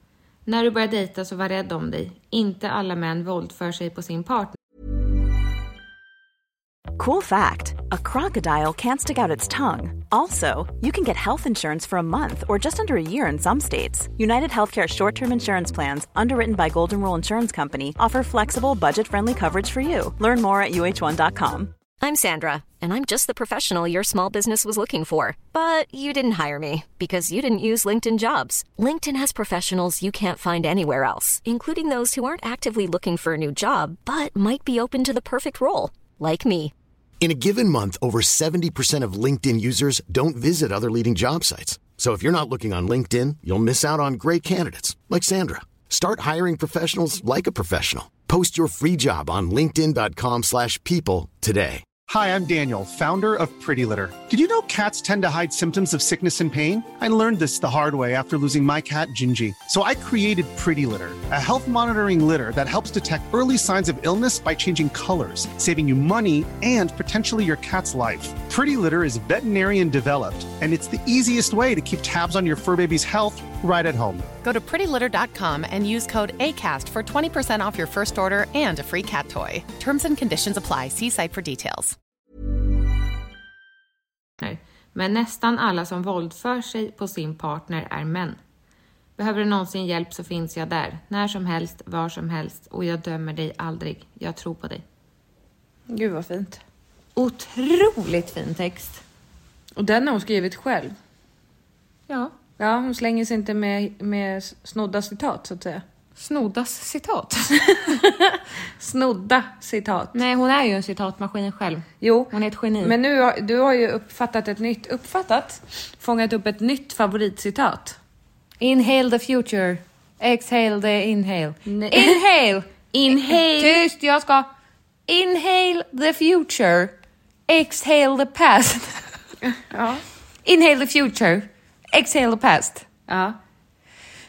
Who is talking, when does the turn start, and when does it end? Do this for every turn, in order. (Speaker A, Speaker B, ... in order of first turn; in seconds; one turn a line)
Speaker A: 0.5-4.6
Speaker B: 7.0-21.7
Speaker C: 22.0-36.7
Speaker D: 37.2-51.9
Speaker E: 52.0-74.3
Speaker F: 74.4-82.0
Speaker A: 84.4-88.4
Speaker A: 89.2-94.8
Speaker G: 95.9-96.6
Speaker A: 97.2-99.0
Speaker G: 99.8-101.0
Speaker A: 102.1-102.3
Speaker G: 102.6-105.8
Speaker A: 106.2-107.9
Speaker G: 107.7-110.2
Speaker A: 110.1-113.0
Speaker G: 112.0-118.0
Speaker A: 118.6-124.5
Speaker G: 121.7-122.2
Speaker G: 122.9-123.8
Speaker A: 125.1-127.0
Speaker A: 127.5-129.2
Speaker G: 129.5-130.0
Speaker A: 130.4-132.9
Speaker G: 133.1-133.4